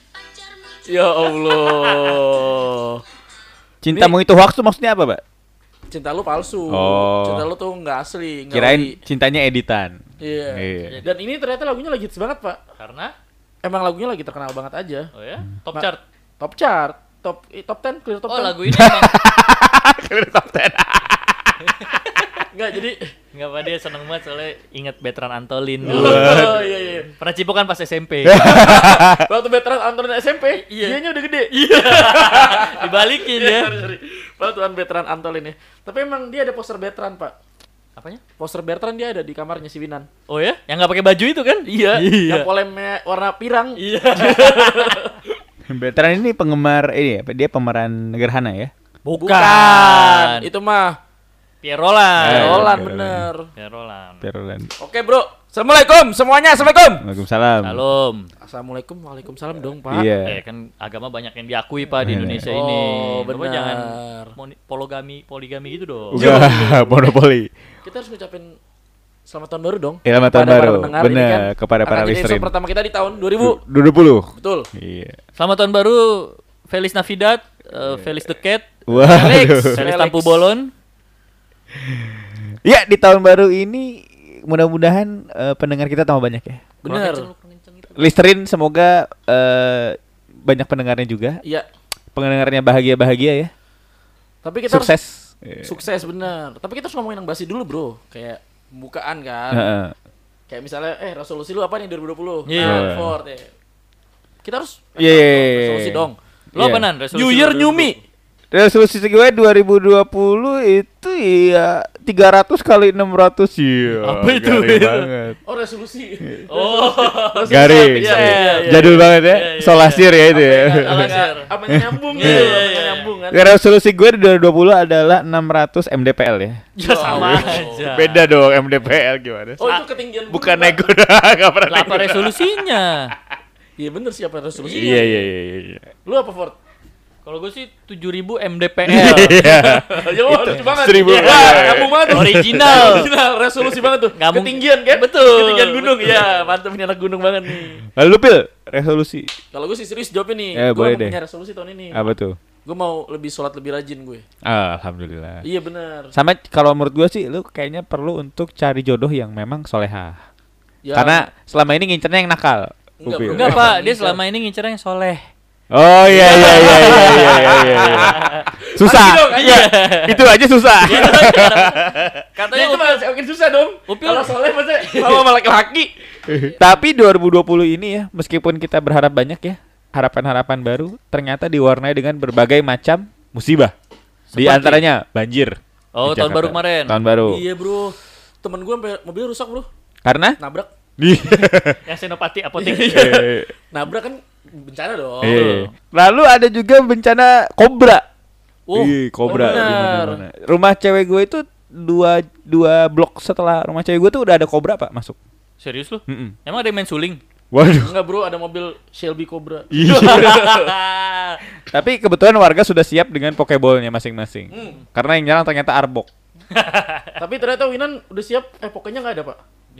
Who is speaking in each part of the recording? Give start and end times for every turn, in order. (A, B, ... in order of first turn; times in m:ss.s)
0:00.9-0:03.0 A
0:03.8-0:05.2 B
0:05.9-0:09.0 A
0:06.7-0:07.5 B
0:08.5-0:11.0 B
0:10.2-0:12.6 A
0:10.8-0:11.2 C
0:12.8-0:13.1 C
0:13.6-0:15.1 A
0:15.1-0:16.0 C
0:16.4-0:18.6 A
0:18.3-0:19.2 C
0:18.7-0:22.2 B
0:21.7-0:22.3 C
0:22.5-0:23.1 A
0:23.3-0:28.5 C
0:25.8-0:26.7 B
0:25.8-0:27.1 A
0:28.2-0:29.2 B
0:28.3-0:37.3 A
0:30.6-0:31.0 C
0:31.5-0:33.7 C
0:38.0-0:38.2 C
0:38.4-0:40.1 A
0:40.3-0:42.5 C
0:41.6-0:45.2 A
0:43.8-0:45.0 C
0:45.7-0:48.7 B
0:49.0-0:50.5 C
0:49.1-0:51.0 A
0:51.6-0:52.8 C
0:52.2-0:53.3 B
0:52.2-0:53.5 A
0:53.6-0:54.2 C
0:54.2-0:54.7 B
0:54.8-0:57.0 A
0:57.0-0:57.8 B
0:57.6-0:58.3 C
0:58.4-1:00.1 A
0:59.9-1:00.4 B
1:00.2-1:06.2 C
1:02.0-1:02.5 B
1:02.5-1:04.3 A
1:06.1-1:07.0 A
1:06.1-1:07.5 B
1:07.8-1:08.5 A
1:09.3-1:13.6 A
1:10.0-1:12.5 B
1:13.4-1:15.2 B
1:14.3-1:14.7 A
1:15.4-1:20.7 C
1:18.9-1:19.8 B
1:19.0-1:20.5 A
1:21.8-1:26.6 B
1:26.8-1:27.3 A
1:26.8-1:28.1 C
1:27.9-1:31.4 B
1:32.1-1:33.5 B
1:34.4-1:34.9 A
1:34.7-1:35.7 B
1:35.6-1:39.7 A
1:39.5-1:39.9 B
1:40.5-1:43.5 A
1:42.4-1:42.9 C
1:42.6-1:43.2 B
1:44.4-1:46.2 A
1:45.0-1:46.9 B
1:46.5-1:48.0 C
1:47.1-1:48.0 A
1:48.5-1:55.4 B
1:54.0-1:55.1 C
1:55.4-1:59.1 A
1:56.5-2:01.5 C
1:57.4-2:01.2 B
2:00.3-2:03.4 A
2:01.7-2:02.6 B
2:02.1-2:03.1 C
2:03.3-2:09.7 B
2:06.8-2:08.3 C
2:06.8-2:08.1 A
2:09.6-2:10.8 A
2:10.3-2:12.5 B
2:11.6-2:13.1 C
2:13.8-2:15.3 A
2:14.6-2:15.9 B
2:16.0-2:16.6 A
2:17.2-2:19.6 C
2:18.8-2:23.0 B
2:19.3-2:27.8 A
2:20.9-2:23.1 C
2:24.1-2:26.5 C
2:27.9-2:29.3 B
2:29.5-2:32.1 A
2:30.5-2:31.2 B
2:31.9-2:32.4 B
2:32.6-2:34.2 A
2:34.4-2:35.4 B
2:35.4-2:36.1 A
2:36.1-2:40.2 B
2:40.8-2:41.3 A
2:40.9-2:43.7 B
2:43.0-2:44.2 A
2:43.3-2:45.3 C
2:45.7-2:52.2 B
2:46.1-2:49.8 A
2:46.2-2:48.4 C
2:49.3-2:50.2 C
2:50.8-2:53.0 C
2:50.9-2:51.3 A
2:52.4-2:56.5 A
2:53.9-2:55.2 C
2:56.3-3:03.7 B
3:04.3-3:04.8 C
3:04.3-3:07.4 B
3:05.9-3:07.0 C
3:07.3-3:09.7 A
3:10.0-3:10.4 B
3:10.4-3:10.7 A
3:11.0-3:11.8 B
3:11.8-3:13.2 C
3:12.6-3:15.4 A
3:12.9-3:13.5 B
3:15.2-3:18.0 B
3:15.2-3:15.7 C
3:18.7-3:19.8 C
3:18.7-3:25.2 B
3:19.2-3:20.2 A
3:25.6-3:27.2 C
3:26.1-3:26.4 B
3:27.5-3:28.0 B
3:27.8-3:30.7 A
3:29.7-3:30.5 B
3:29.8-3:31.4 C
3:31.7-3:36.1 B
3:34.5-3:34.8 A
3:36.5-3:37.2 C
3:37.2-3:39.4 A